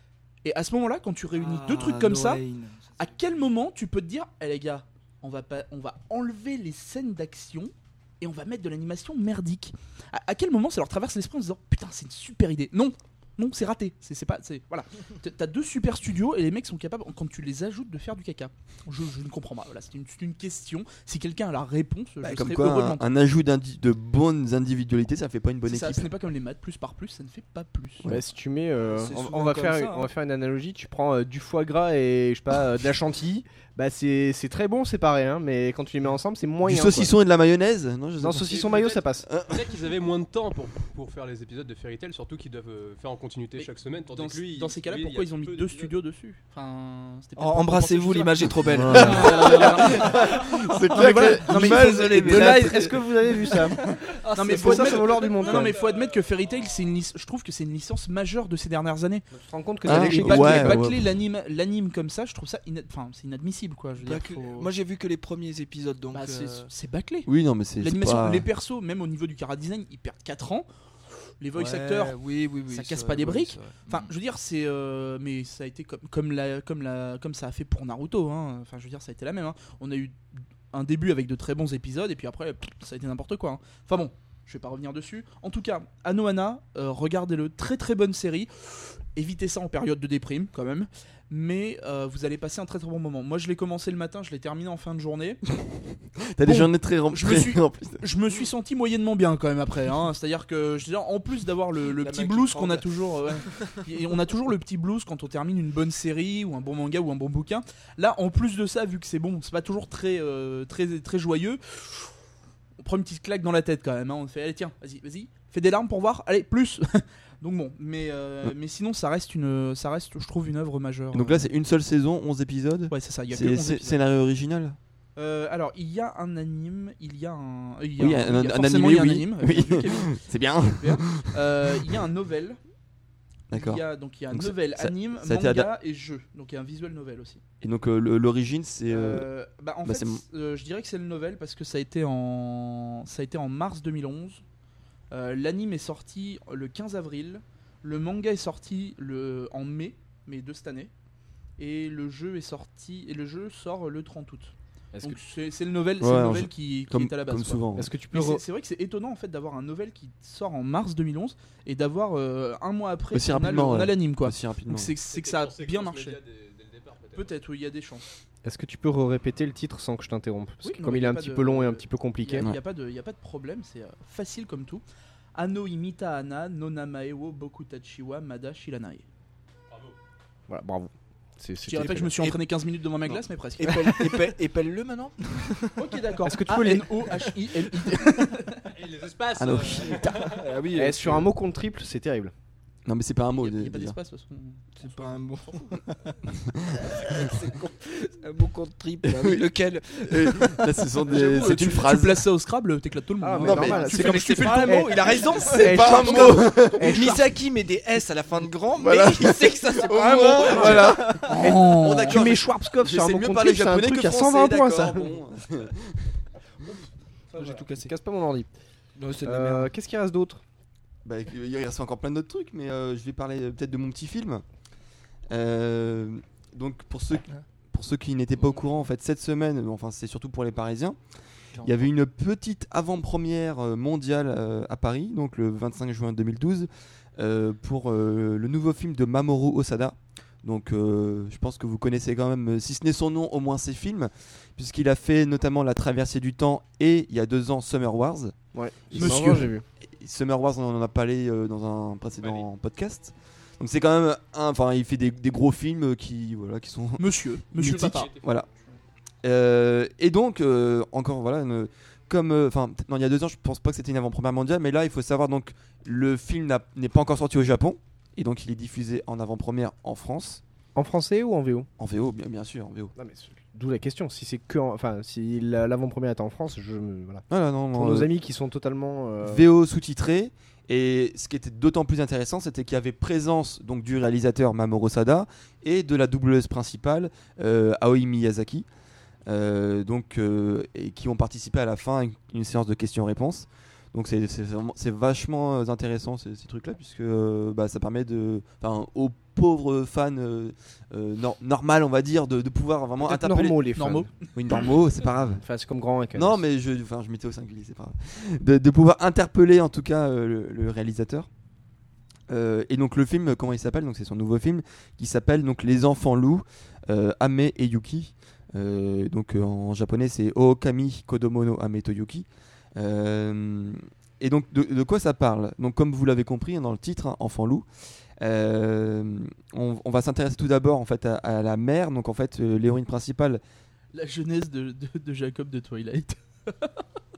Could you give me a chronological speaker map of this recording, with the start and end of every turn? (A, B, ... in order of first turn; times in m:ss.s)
0:00.4-0:02.4 A
0:01.3-0:03.4 B
0:03.0-0:23.0 A
0:22.2-0:26.1 C
0:25.6-0:28.1 A
0:28.0-0:37.1 D
0:28.9-0:30.0 B
0:29.7-0:30.0 A
0:36.6-0:38.6 C
0:38.2-0:39.3 D
0:38.4-0:45.9 E
0:39.2-0:39.7 C
0:43.6-0:50.4 A
0:47.4-0:55.6 B
0:48.7-0:49.4 D
0:48.8-0:52.9 C
0:50.9-0:53.8 D
0:51.0-0:52.8 A
0:54.3-0:59.2 A
0:54.5-0:55.8 D
0:55.6-0:56.0 E
0:59.3-1:00.9 D
0:59.8-1:01.0 C
0:59.9-1:04.7 A
1:04.0-1:06.7 B
1:06.1-1:07.3 A
1:07.2-1:08.4 C
1:07.8-1:10.6 A
1:11.4-1:12.2 A
1:11.5-1:14.1 B
1:12.7-1:20.2 A
1:20.7-1:35.4 A
1:36.3-1:38.0 C
1:36.4-1:52.1 A
1:42.0-1:42.9 B
1:43.5-1:43.7 B
1:52.8-2:01.5 A
2:01.1-2:04.8 C
2:02.9-2:04.0 A
2:05.2-2:12.6 A
2:08.0-2:11.4 C
2:13.5-2:15.7 C
2:13.5-2:17.4 A
2:17.6-2:19.3 C
2:18.9-2:24.4 A
2:19.8-2:20.2 C
2:25.1-2:30.9 A
2:31.6-2:46.2 A
2:34.9-2:35.2 D
2:36.0-2:37.9 C
2:37.7-2:38.4 D
2:43.1-2:44.9 C
2:45.1-2:47.3 E
2:47.1-2:48.1 A
2:48.4-2:52.5 D
2:50.6-2:54.8 A
2:55.3-2:59.0 A
2:59.7-3:00.0 E
3:00.5-3:02.2 D
3:01.6-3:04.1 A
3:03.6-3:05.9 B
3:05.7-3:08.7 A
3:06.2-3:07.6 D
3:08.6-3:10.4 E
3:09.3-3:10.3 C
3:10.1-3:11.3 B
3:10.7-3:12.3 D
3:12.8-3:14.0 C
3:13.4-3:14.6 A
3:14.8-3:16.2 B
3:16.4-3:17.3 C
3:16.9-3:20.7 B
3:19.0-3:19.4 C
3:20.0-3:22.2 C
3:21.1-3:25.2 A
3:23.2-3:27.3 D
3:23.4-3:23.9 C
3:23.6-3:31.6 B
3:25.4-3:27.1 C
3:28.8-3:35.9 C
3:30.4-3:35.1 D
3:31.3-3:32.2 A
3:37.3-3:37.9 B
3:37.4-3:38.5 D
3:39.0-3:39.7 B
3:39.2-3:40.4 D
3:41.0-3:44.4 C
3:45.3-3:51.0 C
3:51.5-3:51.8 B
3:51.6-4:08.3 C
4:08.5-4:09.6 D
4:08.9-4:18.5 C
4:08.9-4:09.5 A
4:17.0-4:18.1 A
4:17.8-4:18.2 E
4:19.2-4:30.4 C
4:30.7-4:31.7 D
4:31.8-4:32.9 C
4:33.0-4:39.4 D
4:37.3-4:38.1 C
4:39.2-4:48.7 C
4:49.3-5:03.6 C
5:03.0-5:04.1 D
5:03.8-5:04.1 A
5:04.3-5:05.4 C
5:05.4-5:06.4 D
5:06.1-5:11.3 C
5:12.3-5:27.6 C
5:28.2-5:33.4 C
5:33.9-5:36.7 A